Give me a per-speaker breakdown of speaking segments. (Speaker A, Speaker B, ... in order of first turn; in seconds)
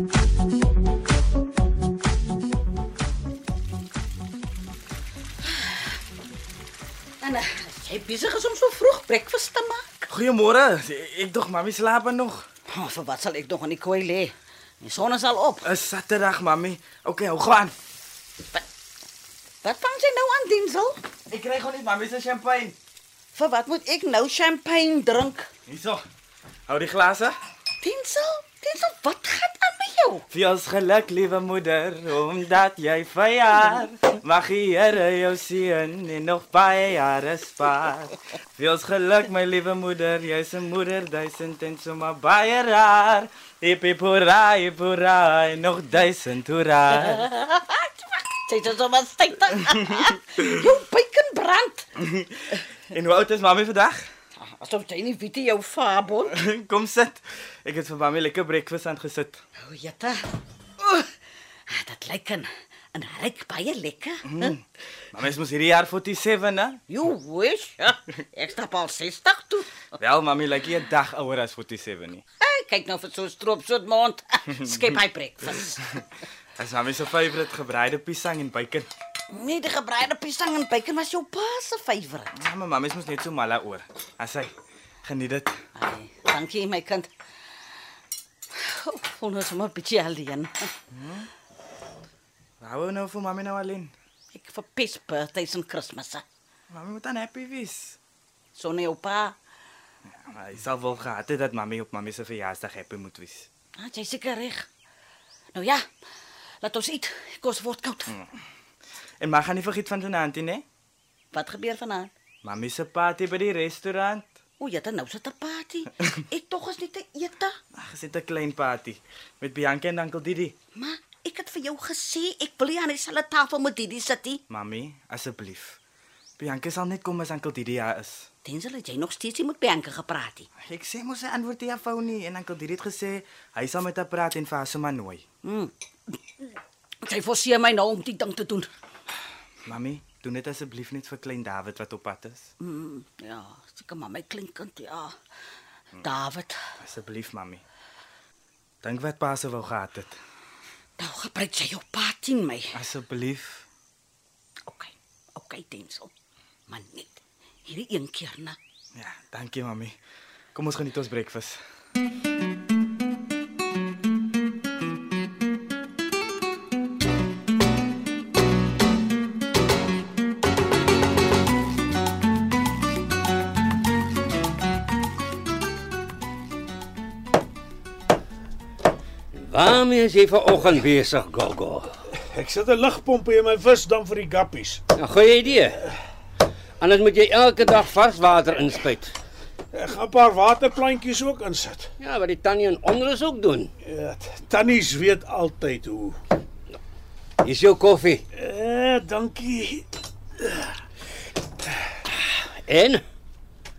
Speaker A: 7.2-10.1, 12.7-15.6, 19.6-21.0, 23.3-25.5, 27.8-30.2, 47.0-51.9, 54.4-56.4, 59.6-60.2, 60.8-61.1, 61.7-64.5, 66.9-69.9, 72.4-76.0, 79.3-82.4, 85.7-87.1, 88.6-90.7, 94.3-96.2, 98.5-99.3, 103.8-104.7, 105.5-105.8, 106.6-108.2, 111.3-112.1, 114.6-117.5, 120.7-124.4, 128.4-130.5, 135.4-136.1, 137.0-138.7, 142.6-145.1, 146.0-146.6, 151.0-152.8, 154.7-156.1, 156.7-158.6
Speaker B: 10.1-12.4, 15.6-17.7, 21.3-22.7, 25.7-26.0, 26.7-27.4, 30.3-47.2, 52.0-54.1, 56.3-59.4, 64.2-66.8, 70.0-72.2, 76.6-78.9, 82.3-84.5, 85.0-85.5, 90.9-91.3, 92.6-93.9, 96.7-98.0, 100.1-103.5, 109.2-110.6, 112.4-114.4, 117.7-120.5, 124.5-125.8, 126.4-128.3, 130.6-135.2, 139.7-142.5, 146.8-147.6, 148.8-150.2, 152.7-153.7, 158.9-159.9, 160.5-161.6
Speaker C: 179.3-182.0, 184.9-185.9, 186.8-189.2, 192.0-193.7, 197.4-198.2, 202.1-203.0
Speaker D: 182.1-184.8, 189.7-191.9, 193.8-196.2, 198.3-199.9, 200.4-200.7